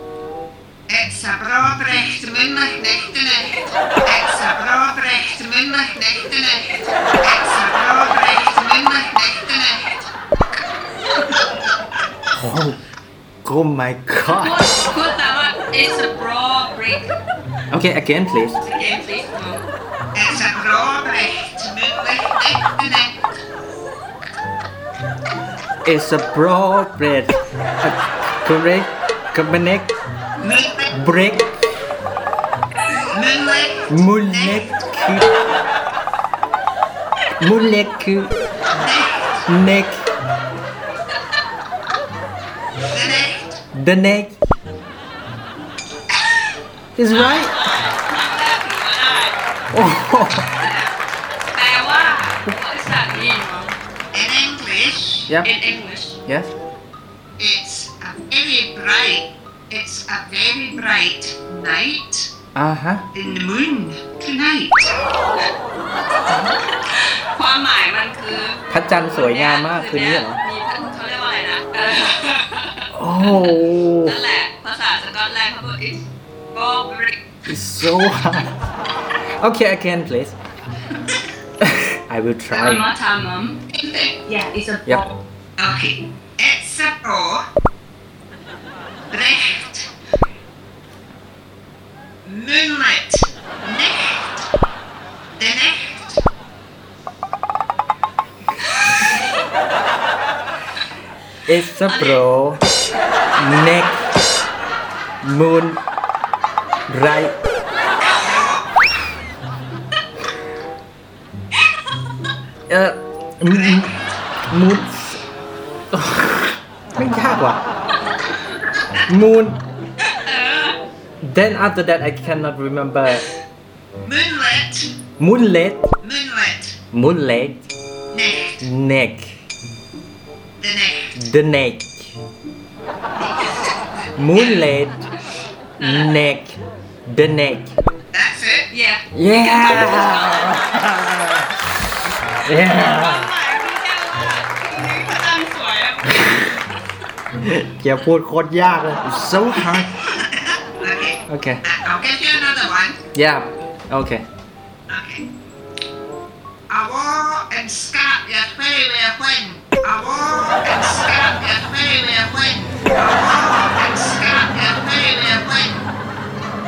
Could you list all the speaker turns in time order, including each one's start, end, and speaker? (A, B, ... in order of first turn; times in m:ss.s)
0:00.9-0:10.1 A
0:12.3-0:12.8 B
0:13.4-0:14.7 B
0:14.3-0:17.1 C
0:17.7-0:18.6 B
0:18.6-0:19.6 C
0:20.1-0:23.2 A
0:25.8-0:30.0 B
0:30.4-0:30.9 A
0:30.9-0:31.5 B
0:33.1-0:34.6 A
0:33.9-0:35.3 B
0:37.4-0:38.3 B
0:38.7-0:39.5 A
0:39.4-0:40.1 B
0:42.9-0:43.6 A
0:43.7-0:44.4 B
0:47.0-0:47.5 B
0:47.1-0:49.4 C
0:49.7-0:50.5 B
0:50.6-0:50.9 C
0:51.5-0:53.7 C
0:54.1-0:55.3 A
0:55.3-0:55.5 B
0:55.4-0:56.2 C
0:56.3-0:56.6 B
0:57.4-1:02.3 A
1:02.6-1:03.1 B
1:03.1-1:05.0 A
1:06.9-1:17.2 C
1:08.7-1:10.4 B
1:12.9-1:14.2 B
1:17.5-1:18.5 B
1:19.4-1:20.4 B
1:21.6-1:22.9 B
1:22.5-1:23.6 C
1:23.7-1:24.2 A
1:24.3-1:25.1 C
1:25.6-1:27.5 A
1:29.1-1:29.9 A
1:32.2-1:34.5 A
1:35.3-1:36.2 A
1:41.5-1:42.6 B
1:41.9-1:42.3 C
1:43.4-1:44.1 B
1:45.2-1:45.8 B
1:46.9-1:47.4 B
1:48.0-1:48.7 A
1:52.7-1:54.0 B
1:53.5-1:53.9 A
1:54.5-1:55.2 B
1:55.9-1:57.6 B
1:59.0-1:59.6 B
2:00.0-2:00.8 C
2:01.2-2:03.3 B
2:04.0-2:05.0 A
2:05.2-2:05.9 B
2:06.0-2:06.8 A
2:06.9-2:07.7 B
2:08.1-2:08.6 A
2:08.6-2:09.4 B
2:10.6-2:11.2 A
2:11.2-2:12.1 B
2:14.2-2:15.0 B
2:14.4-2:14.6 A
2:15.8-2:16.2 C
2:15.8-2:17.7 B
2:18.1-2:18.7 A
2:18.7-2:20.7 C
2:19.1-2:21.5 B
2:22.4-2:23.3 B
2:22.6-2:26.6 C
2:27.4-2:29.9 B
2:30.0-2:33.0 A
2:31.3-2:31.6 B
2:33.1-2:34.3 B
2:34.9-2:35.2 A
2:36.7-2:45.8 A